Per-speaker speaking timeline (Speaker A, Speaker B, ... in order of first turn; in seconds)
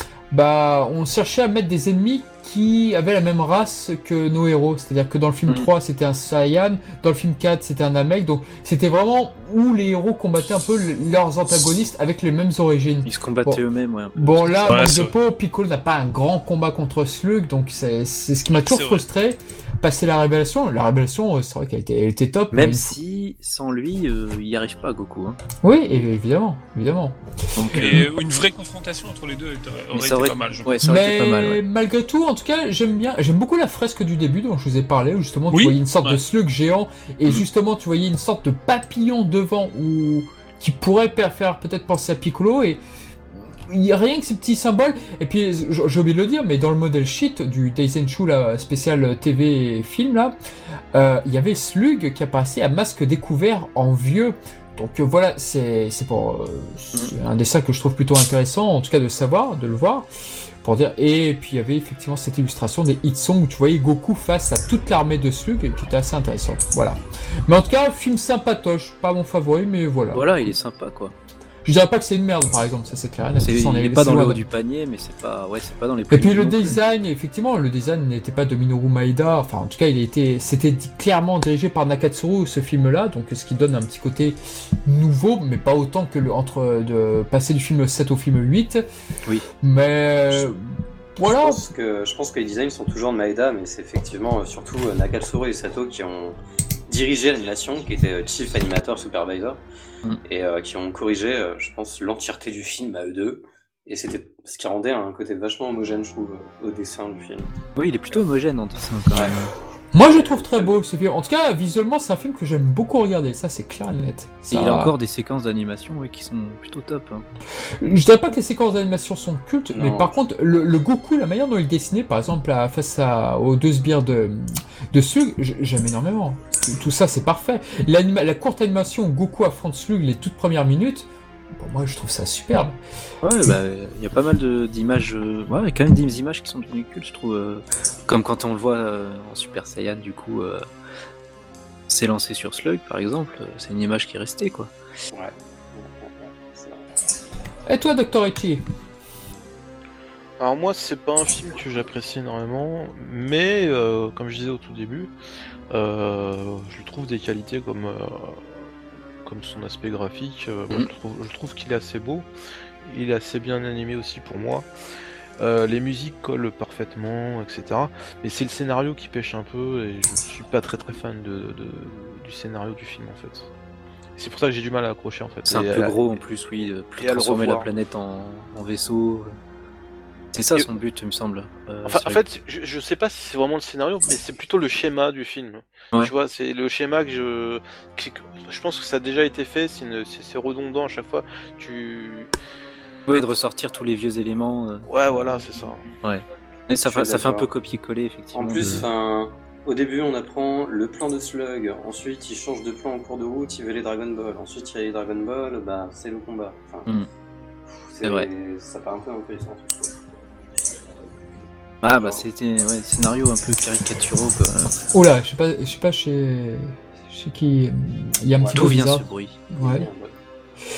Speaker A: 0.3-13.6, 14.2-22.9, 25.6-27.2, 30.8-42.8, 43.6-50.3, 50.9-60.1, 60.6-70.3, 71.6-74.4, 76.1-88.8, 89.6-91.6, 109.9-114.9, 117.8-132.8, 147.7-148.6, 214.9-219.9
Speaker B: 13.1-14.8, 22.5-25.4, 27.6-28.1, 29.9-31.6, 70.1-71.1, 73.4-76.8, 107.8-109.5, 114.5-117.2, 133.2-140.6, 141.9-144.7, 175.4-179.4, 180.3-182.2, 193.1-194.9, 196.0-198.9, 208.0-208.3, 211.8-214.8, 218.5-219.4
Speaker C: 14.7-15.1, 18.6-19.0, 27.7-30.8, 35.5-36.2
Speaker D: 91.2-99.6, 100.2-107.5, 110.0-110.7, 119.7-120.2, 145.1-146.8, 196.8-197.5, 198.3-206.9, 207.7-209.9, 211.9-212.2, 218.4-218.8, 219.6-220.1
Speaker E: 150.4-155.1, 155.7-158.7, 159.2-162.3, 162.8-164.7, 165.4-173.5, 174.2-176.0, 177.0-177.7, 181.8-192.3, 194.9-195.8